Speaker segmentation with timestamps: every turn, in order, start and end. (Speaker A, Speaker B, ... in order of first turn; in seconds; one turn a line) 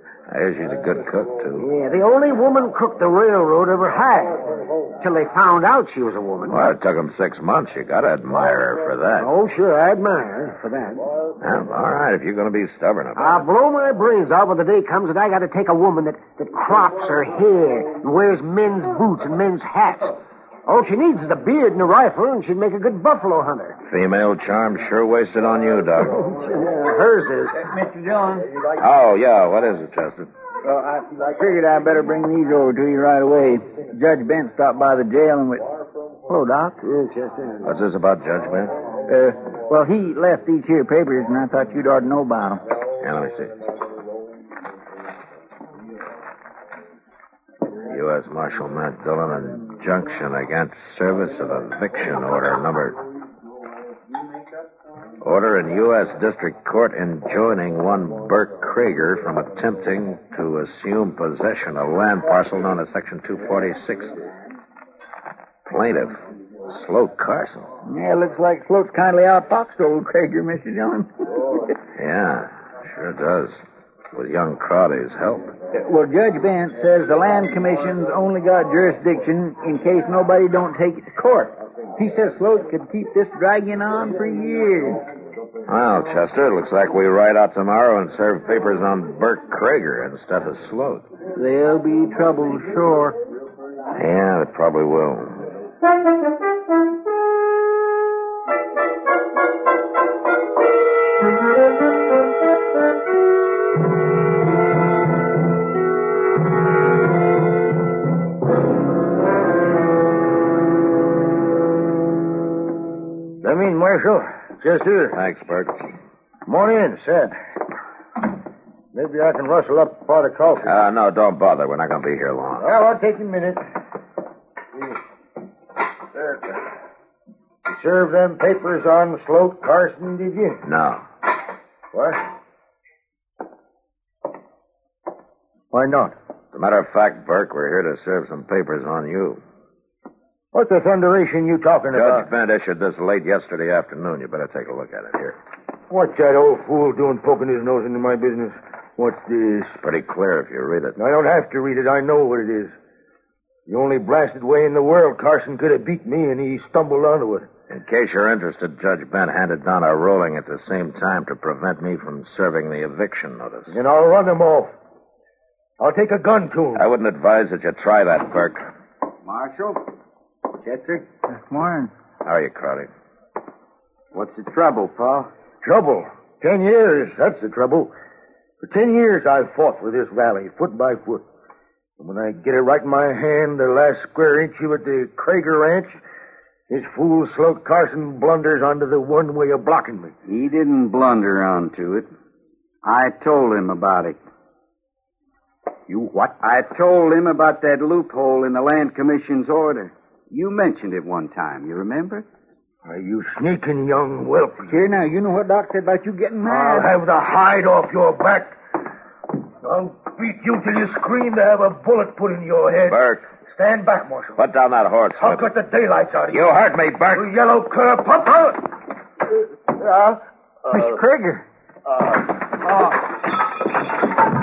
Speaker A: 0.3-1.7
Speaker B: 1.6-6.8
Speaker A: 6.5-9.3
Speaker B: 9.2-11.1
Speaker A: 11.4-13.5
Speaker B: 13.1-23.8
Speaker A: 23.9-26.2
Speaker B: 26.1-27.6
Speaker C: 27.6-28.6
Speaker A: 28.8-30.3
Speaker C: 30.6-35.7
Speaker C: 36.3-36.8
Speaker B: 36.8-37.7
Speaker A: 37.6-38.8
Speaker C: 39.1-42.6
Speaker A: 43.0-43.5
Speaker A: 47.9-53.0
Speaker A: 55.2-64.2
Speaker A: 65.6-67.7
Speaker C: 67.9-71.1
Speaker A: 71.9-73.6
Speaker A: 74.1-75.5
Speaker C: 75.7-85.0
Speaker A: 85.7-91.1
Speaker C: 91.3-93.2
Speaker A: 93.9-95.5
Speaker D: 113.4-115.2
Speaker A: 115.1-115.8
Speaker D: 116.4-117.3
Speaker D: 118.9-120.8
Speaker A: 120.6-122.7
Speaker D: 122.6-123.6
Speaker D: 127.7-130.6
Speaker A: 130.6-131.1
Speaker D: 131.9-132.2
Speaker D: 135.7-136.1
Speaker A: 136.5-139.4
Speaker D: 140.5-142.3
Speaker A: 141.9-145.4
Speaker D: 145.9-149.8
Speaker A: 149.8-151.0
Speaker D: 150.9-152.7
Speaker D: 153.7-157.5
Speaker A: 157.7-163.8
Speaker D: 163.7-164.7
Speaker D: 165.8-166.8
Speaker A: 166.8-168.7
Speaker E: 169.3-169.9
Speaker E: 170.7-171.0
Speaker C: 171.3-171.9
Speaker A: 172.2-172.9
Speaker E: 174.1-175.3
Speaker D: 175.6-177.9
Speaker D: 178.6-181.2
Speaker D: 182.0-186.0
Speaker D: 186.7-190.1
Speaker E: 190.3-192.1
Speaker E: 192.8-194.2
Speaker E: 195.9-202.3
Speaker D: 202.8-204.8
Speaker C: 204.7-207.0
Speaker D: 206.4-208.6
Speaker D: 209.6-214.4
Speaker A: 212.9-213.2
Speaker A: 214.4-215.4
Speaker D: 215.3-216.4
Speaker A: 216.3-217.3
Speaker D: 217.1-218.6
Speaker C: 220.7-221.3